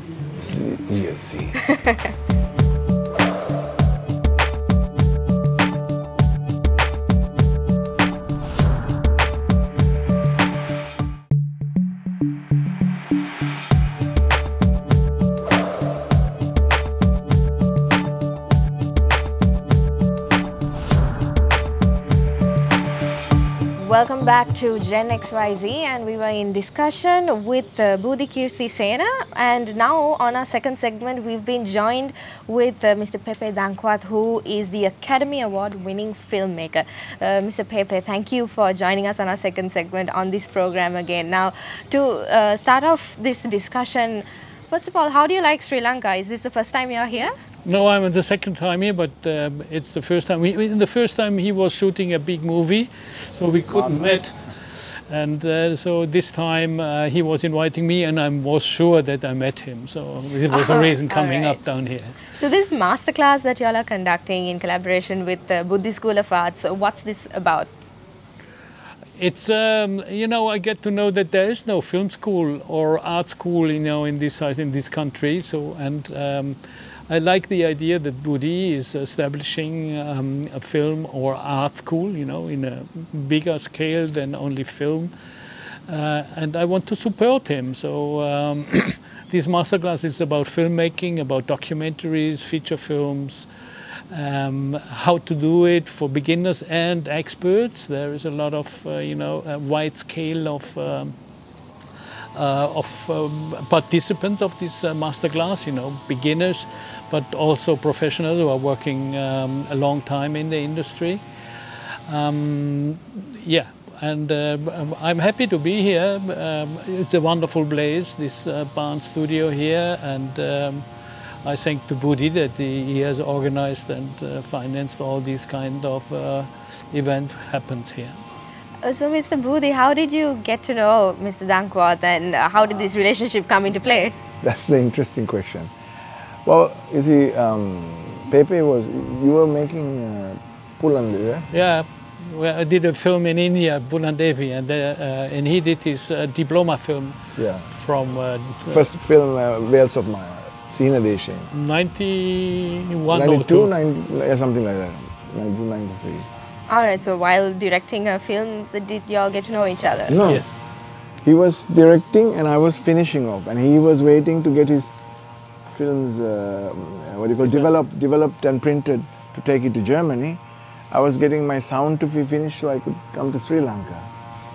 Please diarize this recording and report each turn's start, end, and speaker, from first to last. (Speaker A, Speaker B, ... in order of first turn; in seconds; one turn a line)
Speaker A: 0.3-1.6
Speaker B: 23.8-47.3
Speaker C: 47.6-62.2
Speaker B: 60.5-61.6
Speaker B: 62.3-67.7
Speaker C: 69.2-76.6
Speaker C: 77.1-85.1
Speaker C: 85.9-93.5
Speaker C: 94.1-101.1
Speaker C: 102.3-111.2
Speaker C: 112.1-120.8
Speaker C: 121.4-128.2
Speaker B: 128.8-134.2
Speaker A: 134.4-135.7
Speaker A: 136.4-141.5
Speaker C: 141.5-147.2
Speaker A: 147.4-147.7
Speaker C: 147.7-148.9
Speaker A: 148.6-151.5
Speaker C: 151.5-153.7
Speaker A: 153.1-156.3
Speaker B: 156.7-160.2
Speaker A: 160.1-160.4
Speaker A: 161.2-164.9
Speaker A: 165.6-174.1